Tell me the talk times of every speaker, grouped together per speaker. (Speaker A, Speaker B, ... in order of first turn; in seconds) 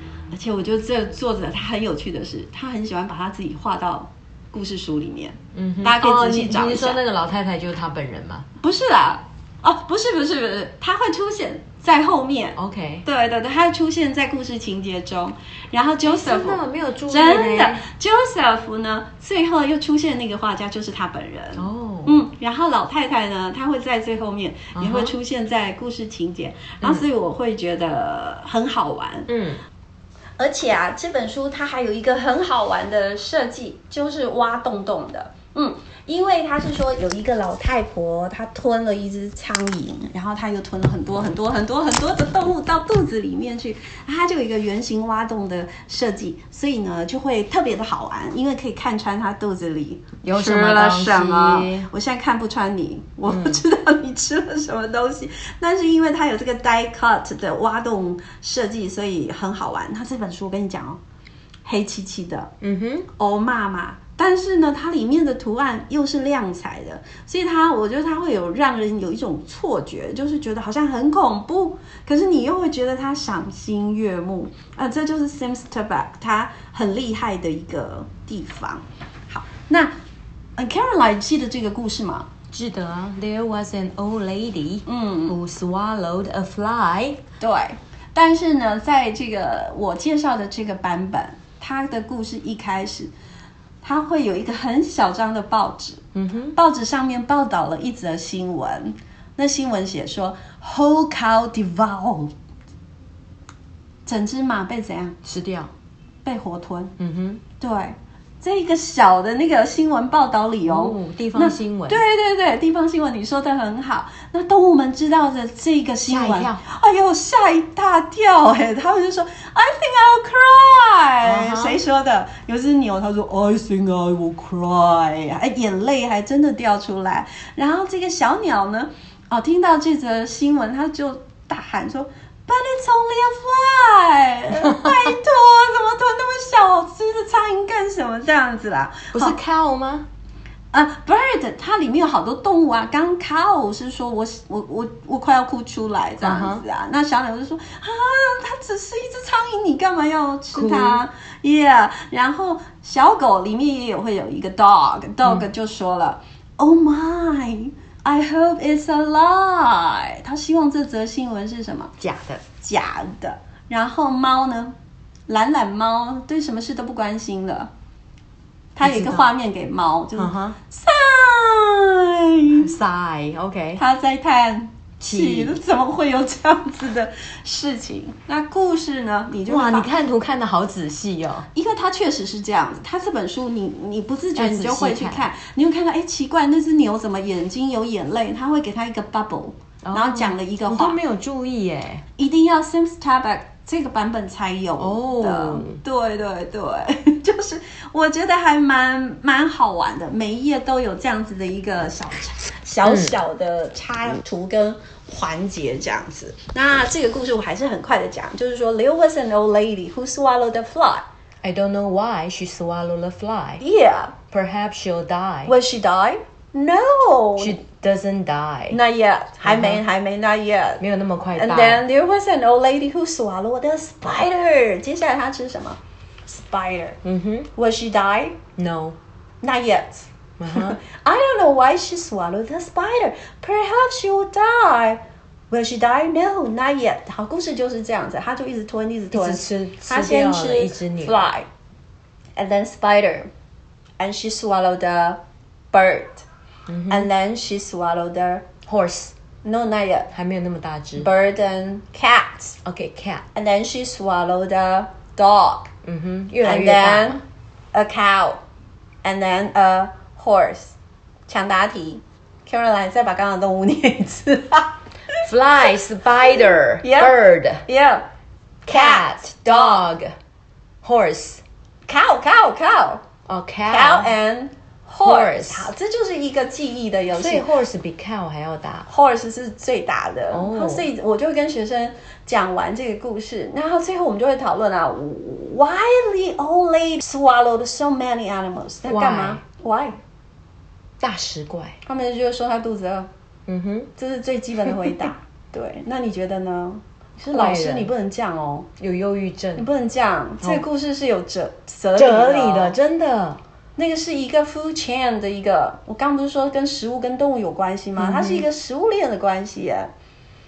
Speaker A: 0.3-7.0, 8.6-29.3, 30.4-61.0, 61.6-62.5, 63.1-79.9, 80.6-82.3, 84.8-85.3, 87.4-93.1, 93.8-102.3, 104.0-105.2, 106.2-106.9, 107.6-139.4, 140.7-161.9, 162.6-164.8, 165.3-167.7, 168.8-172.7, 173.8-179.9, 181.5-191.0, 192.2-211.1, 213.6-214.1, 215.4-217.6, 218.7-220.8, 221.3-227.0, 227.5-228.4, 229.4-241.5, 242.4-243.3, 244.0-245.2, 245.7-246.2, 246.9-248.5, 249.4-250.1, 250.9-252.6, 253.3-255.7, 256.4-257.2, 257.7-258.4, 259.0-260.7, 261.3-265.2, 266.3-268.1, 268.7-269.9, 271.9-273.0, 273.7-277.4, 278.9-289.9, 291.9-293.1, 294.0-298.7, 299.6-302.8, 303.8-309.9
Speaker B: 5.5-8.4, 12.6-13.0, 16.0-17.8, 21.6-22.2, 24.7-25.1, 29.3-29.6, 50.2-51.9, 53.2-53.6, 62.6-63.1, 82.5-87.2, 96.1-96.5, 105.2-105.7, 107.0-107.4, 110.6-112.0, 116.0-116.6, 121.2-121.8, 134.6-135.0, 139.1-140.1, 146.2-146.6, 150.5-151.0, 162.0-162.4, 168.8-169.3, 170.2-170.6, 172.6-173.8, 175.0-175.6, 179.5-181.5, 184.3-185.2, 189.8-192.0, 194.8-195.8, 202.8-203.2, 211.4-213.6, 214.3-215.5, 217.4-218.8, 219.4-219.8, 220.8-221.8, 227.0-227.5, 228.6-229.0, 230.4-230.8, 239.1-241.3, 246.7-247.1, 248.7-249.1, 250.1-251.1, 252.6-253.2, 255.8-257.2, 265.2-267.6, 268.6-270.1, 270.8-271.4, 273.3-274.1, 275.0-275.7, 277.1-278.9, 280.3-280.9, 288.9-289.4, 291.0-291.8, 293.5-293.9, 294.6-294.9, 297.3-297.9, 298.8-299.7, 301.9-303.4, 308.0-308.4